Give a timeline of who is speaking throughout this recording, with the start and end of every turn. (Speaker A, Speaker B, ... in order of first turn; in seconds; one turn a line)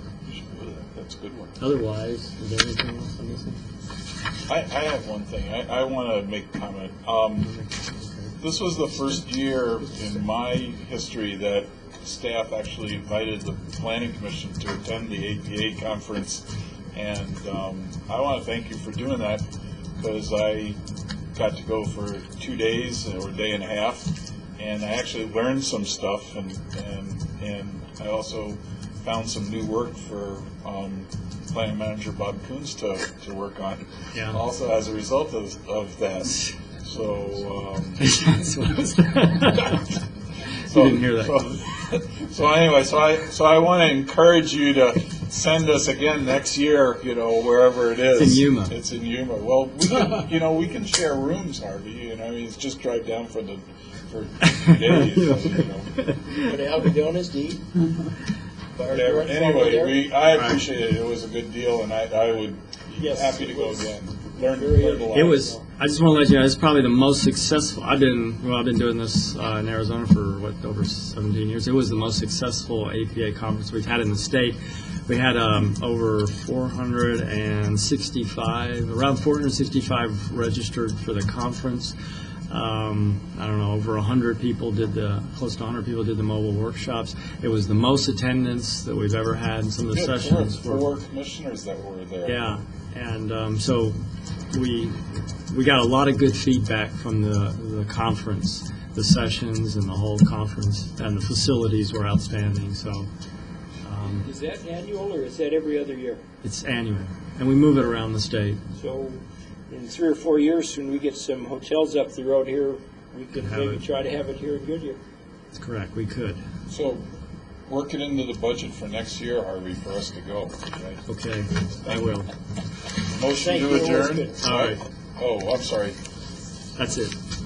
Speaker A: 0.2-1.6
Speaker B: 1.6-3.6
Speaker A: 4.5-7.5
Speaker B: 7.4-8.3
Speaker A: 8.4-19.4
Speaker A: 20.0-20.8
Speaker A: 21.4-38.1
Speaker B: 34.1-34.4
Speaker B: 38.0-39.9
Speaker A: 40.6-56.6
Speaker B: 40.7-41.6
Speaker B: 48.1-48.7
Speaker B: 54.5-56.5
Speaker C: 56.3-57.7
Speaker C: 58.8-60.0
Speaker A: 58.9-65.5
Speaker B: 60.4-60.6
Speaker C: 63.0-63.9
Speaker C: 64.5-65.6
Speaker B: 65.1-82.0
Speaker B: 82.5-90.9
Speaker A: 89.9-92.6
Speaker B: 92.2-94.0
Speaker B: 94.5-103.1
Speaker B: 103.8-104.3
Speaker C: 104.2-106.2
Speaker B: 106.4-108.6
Speaker C: 108.8-115.0
Speaker B: 113.3-113.8
Speaker B: 115.5-116.4
Speaker A: 116.7-117.1
Speaker A: 117.7-121.0
Speaker B: 121.1-122.3
Speaker A: 123.1-126.0
Speaker C: 123.3-124.4
Speaker B: 124.4-124.8
Speaker B: 126.8-127.2